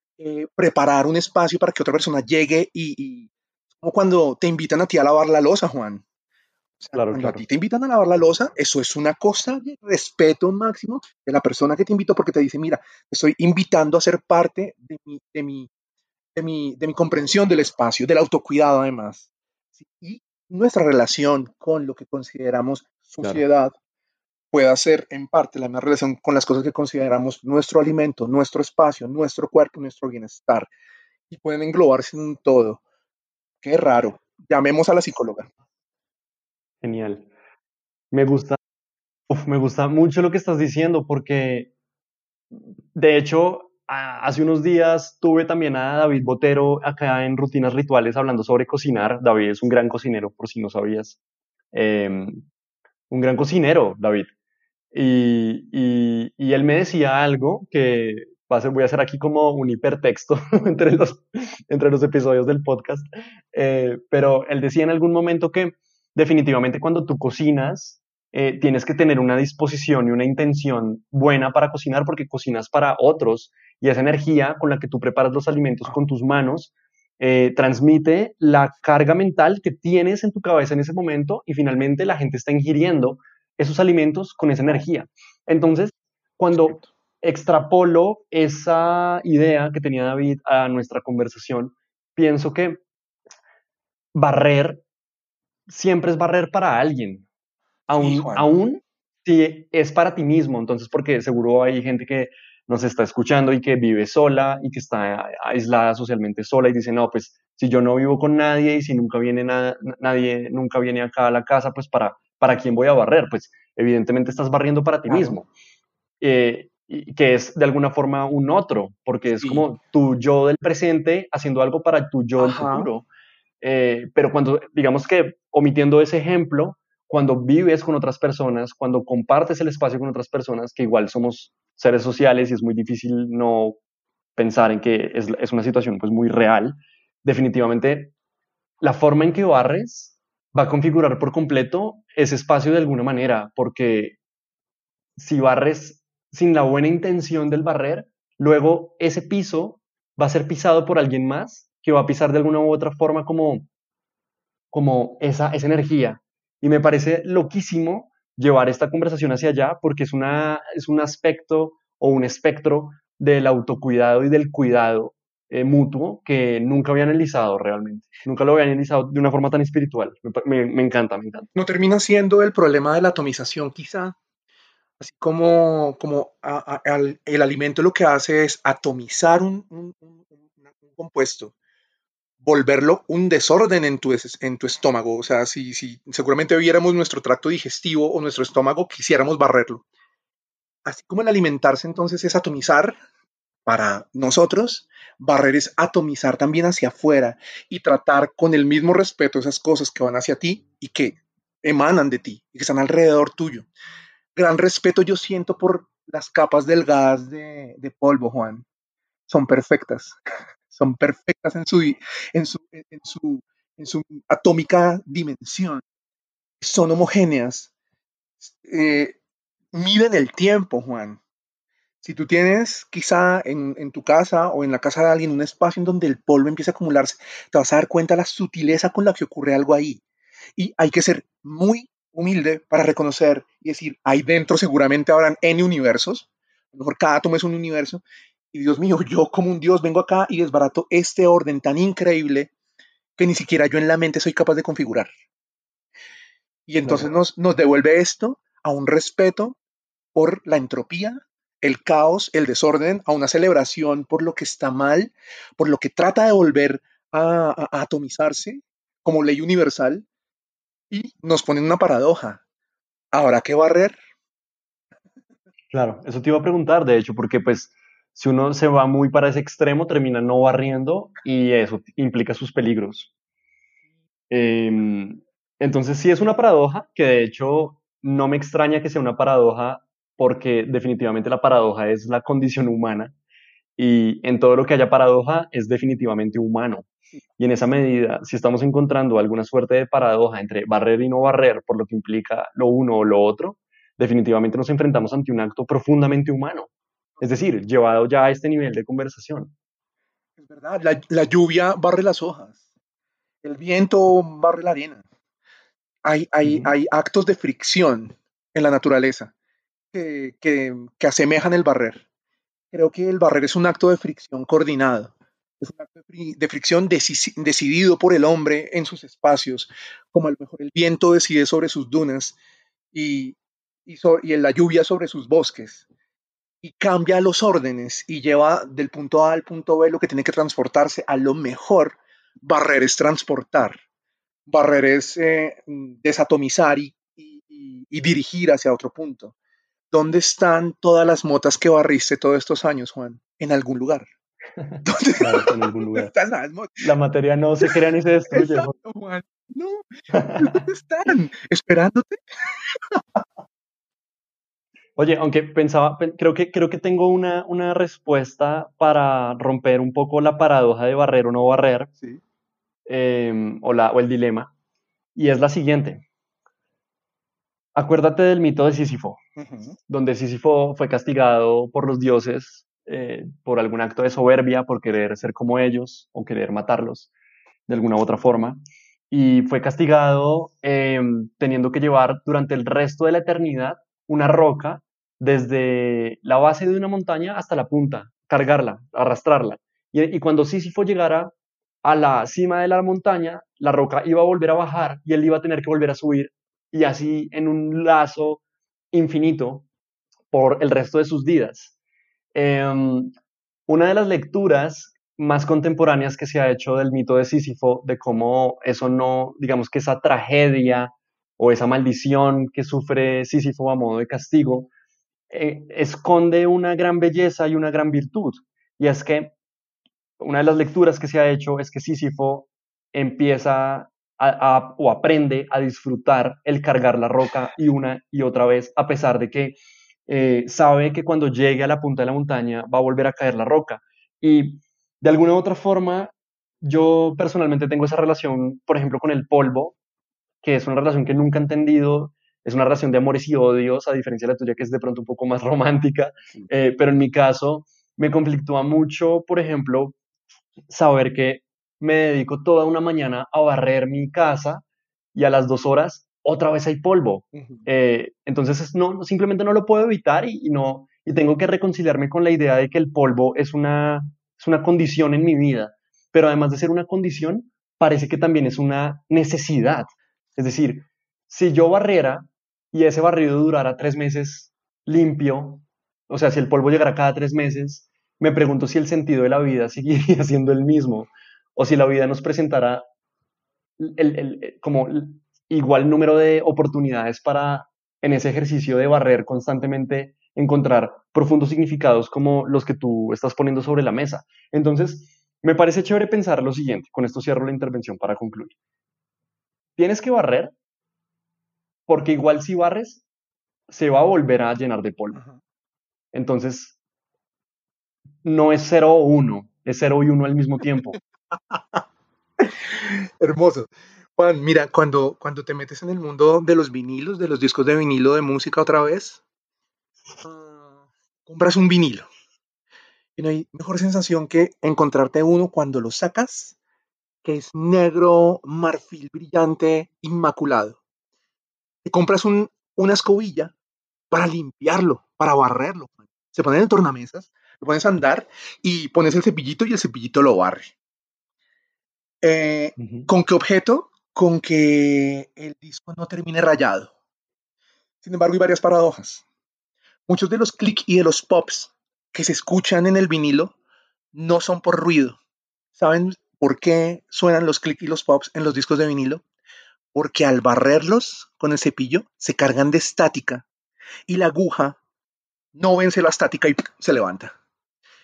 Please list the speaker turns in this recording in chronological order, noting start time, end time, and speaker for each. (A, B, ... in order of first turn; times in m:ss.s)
0:00.2-0:06.0 A
0:06.8-0:15.7 A
0:06.9-0:07.4 B
0:16.3-0:19.3 A
0:19.8-0:23.7 A
0:24.5-0:30.7 A
0:31.3-0:32.8 A
0:33.6-0:35.5 A
0:36.8-0:37.3 B
0:38.1-0:38.6 B
0:39.3-0:41.7 B
0:42.9-0:51.2 B
0:51.7-0:52.5 B
0:53.1-0:54.3 B
0:54.9-1:32.8 B
1:26.5-1:26.9 A
1:34.1-1:34.8 B
1:35.7-1:37.2 B
1:37.9-1:55.5 B
1:37.9-1:38.5 A
1:55.1-1:55.4 A
1:56.2-2:03.0 B
1:59.3-1:59.7 A
2:02.4-2:02.9 A
2:03.6-2:13.8 B
2:14.4-2:18.1 B
2:18.8-2:24.2 B
2:25.2-2:33.7 B
2:34.7-2:51.5 B
2:51.6-2:54.2 A
2:55.0-3:01.5 A
3:02.4-3:09.8 A
3:10.8-3:13.0 A
3:13.6-3:23.7 A
3:24.4-3:28.6 A
3:29.3-3:30.2 A
3:30.7-3:35.8 A
3:36.6-3:37.7 A
3:38.4-3:39.2 A
3:39.7-3:41.2 A
3:42.0-3:50.0 A
3:50.6-4:02.5 A
4:03.2-4:05.1 A
4:06.7-4:09.6 A
4:10.1-4:20.0 A
4:20.9-4:22.4 A
4:23.1-4:24.0 A
4:25.7-4:33.1 B
4:34.3-4:43.1 B
4:43.8-4:56.7 B
4:57.2-4:59.5 B
5:00.4-5:02.6 A
5:03.4-5:05.0 A
5:06.0-5:09.3 A
5:06.4-5:06.7 B
5:09.9-5:12.0 A
5:12.7-5:22.4 A
5:22.9-5:25.8 A
5:26.6-5:33.8 A
5:34.5-5:39.3 A
5:39.9-5:44.1 A
5:44.6-5:46.1 B
5:44.8-5:46.8 A
5:46.8-5:48.7 B
5:48.3-5:49.8 A
5:50.1-5:50.6 B
5:50.4-5:53.0 A
5:55.0-6:01.9 B
6:02.9-6:04.5 B
6:05.2-6:06.0 B
6:07.7-6:09.2 B
6:09.4-6:09.8 A
6:09.9-6:17.1 B
6:17.7-6:39.7 B
6:40.3-6:41.7 B
6:42.3-6:43.1 B
6:43.7-6:54.7 B
6:55.3-6:59.3 B
7:00.2-7:19.8 B
7:20.4-7:30.0 B
7:30.7-7:34.6 B
7:35.1-8:02.8 B
7:37.3-7:37.6 A
8:03.8-8:18.5 B
8:19.8-8:20.5 B
8:21.9-8:23.0 B
8:23.7-8:25.2 B
8:26.1-8:26.8 B
8:28.2-8:31.0 B
8:31.3-8:31.8 A
8:32.7-8:39.2 A
8:40.2-8:42.1 A
8:43.2-8:46.6 A
8:47.2-8:50.8 A
8:51.8-8:53.5 A
8:54.1-9:00.7 A
9:02.2-9:06.9 A
9:02.8-9:03.1 B
9:08.0-9:09.2 A
9:10.1-9:13.6 A
9:14.1-9:15.2 A
9:15.8-9:19.2 A
9:19.9-9:23.5 A
9:24.1-9:24.8 A
9:25.5-9:27.3 A